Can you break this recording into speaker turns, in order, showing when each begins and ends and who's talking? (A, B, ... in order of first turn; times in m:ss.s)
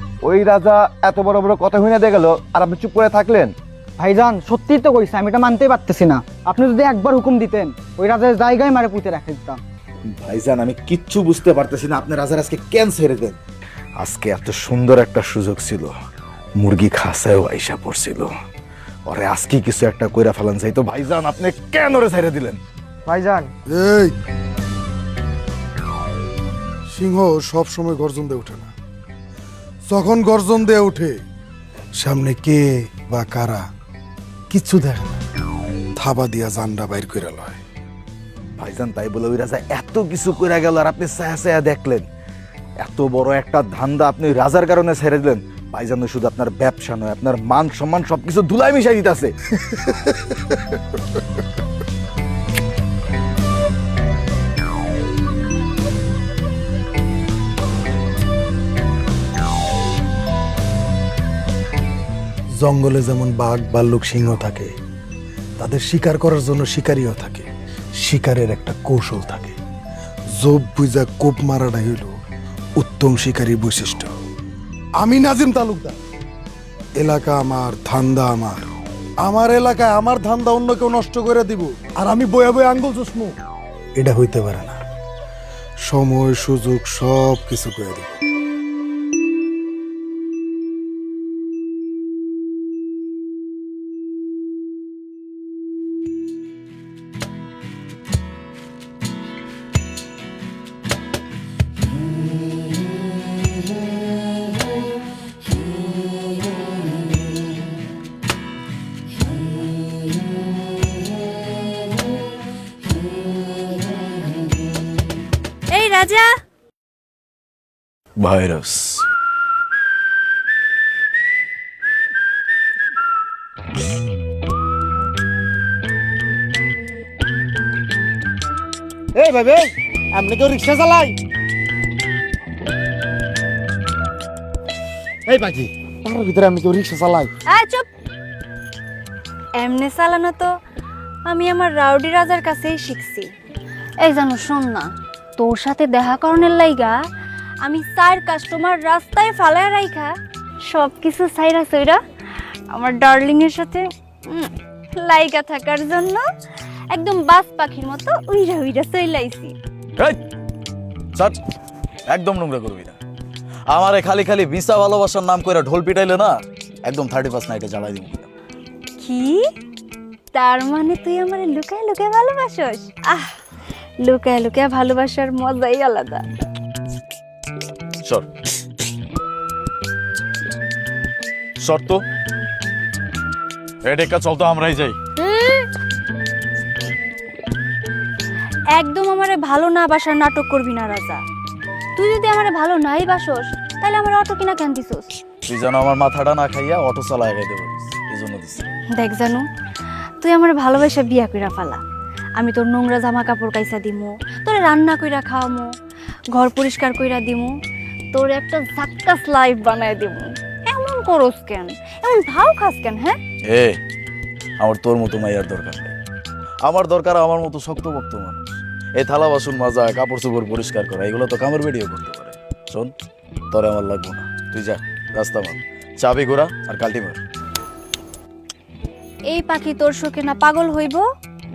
0:00.2-0:03.6 A
0:04.0-0:09.6 B
0:10.1-0:13.4 C
0:14.0-0:15.9 C
0:16.6-0:18.3 C
0:19.0-0:22.6 C
0:23.1-0:23.5 B
0:23.7-0:24.1 D
0:26.9-0:28.7 D
0:29.9-0:31.2 D
0:32.0-0:33.6 D
0:34.5-0:35.2 D
0:36.0-0:37.6 D
0:38.6-0:42.1 C
0:42.8-0:49.3 C
1:02.6-1:04.7 D
1:05.6-1:07.4 D
1:08.0-1:09.6 D
1:10.4-1:12.1 D
1:12.8-1:14.1 D
1:15.0-1:16.0 D
1:17.0-1:18.6 D
1:19.2-1:23.3 D
1:24.0-1:24.8 D
1:25.9-1:28.2 D
1:55.7-1:56.3 E
1:58.2-1:59.0 F
2:09.1-2:11.2 G
2:15.3-2:17.3 G
2:17.5-2:17.8 E
2:19.6-2:20.6 E
2:21.2-2:23.3 E
2:24.0-2:27.0 E
2:27.6-2:30.1 E
2:30.6-2:32.0 E
2:32.7-2:36.2 E
2:36.9-2:39.6 E
2:42.1-2:43.0 F
2:43.7-2:48.3 F
2:49.0-2:49.5 E
2:50.3-2:53.4 E
2:54.0-2:56.2 E
3:01.6-3:02.0 F
3:03.8-3:05.0 F
3:05.2-3:05.7 E
3:08.7-3:11.2 E
3:12.0-3:15.1 E
3:15.4-3:18.7 F
3:18.9-3:19.4 E
3:20.2-3:21.8 E
3:22.4-3:25.7 E
3:26.3-3:27.5 E
3:28.1-3:33.2 E
3:33.5-3:33.8 F
3:34.6-3:35.9 F
3:36.6-3:42.9 F
3:43.5-3:47.2 F
3:49.3-3:51.0 E